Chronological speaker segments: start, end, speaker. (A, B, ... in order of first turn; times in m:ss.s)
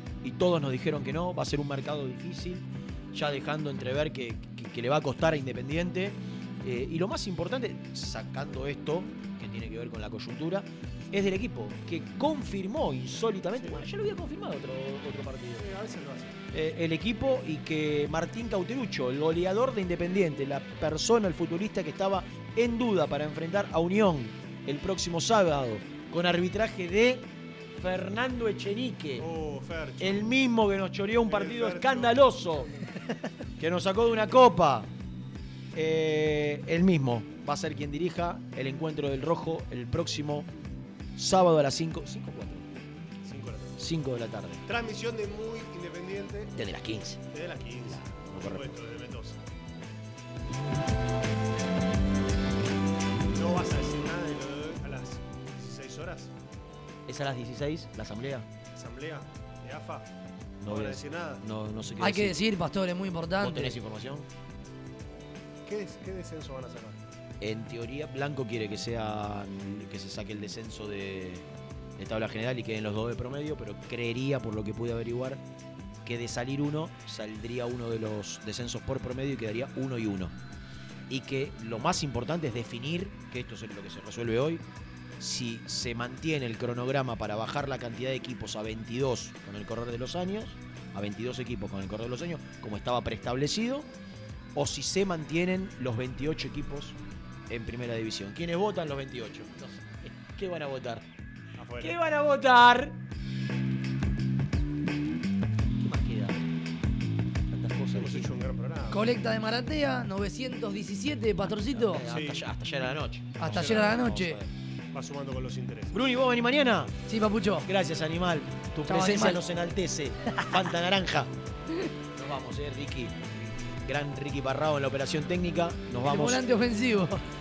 0:00.2-0:15.6 A
0:13.6-0:13.8 B
0:15.6-0:16.4 B
0:16.5-0:29.2 A
0:29.2-0:30.3 B
0:30.0-0:32.7 A
0:31.2-0:32.8 B
0:33.6-0:34.9 A
0:35.7-0:40.5 A
0:41.2-0:42.6 A
0:43.2-0:43.8 B
0:43.8-0:44.6 A
0:44.6-0:46.5 B
0:46.5-0:47.2 A
0:47.3-0:49.4 B
0:47.8-0:48.7 A
0:53.3-0:56.3 B
0:57.1-0:58.4 A
0:58.7-1:00.1 B
1:00.6-1:02.3 A
1:00.6-1:01.4 B
1:02.0-1:03.8 C
1:03.4-1:04.2 A
1:05.6-1:07.0 B
1:07.4-1:15.4 A
1:16.0-1:20.3 A
1:21.1-1:24.6 A
1:25.2-1:33.9 A
1:34.5-1:37.0 A
1:37.5-1:41.0 A
1:41.6-1:41.9 B
1:41.8-1:43.0 A
1:45.8-1:46.4 A
1:47.5-1:48.3 A
1:48.0-1:49.0 B
1:48.9-1:52.0 C
1:51.7-1:54.5 A
1:52.1-1:52.4 B
1:53.4-1:54.4 C
1:53.4-1:54.0 B
1:54.9-1:56.0 B
1:55.9-1:57.0 A
1:57.1-1:57.7 C
1:57.6-2:01.3 A
1:58.9-1:59.4 C
2:02.2-2:03.2 A
2:03.8-2:06.4 A
2:06.0-2:07.2 C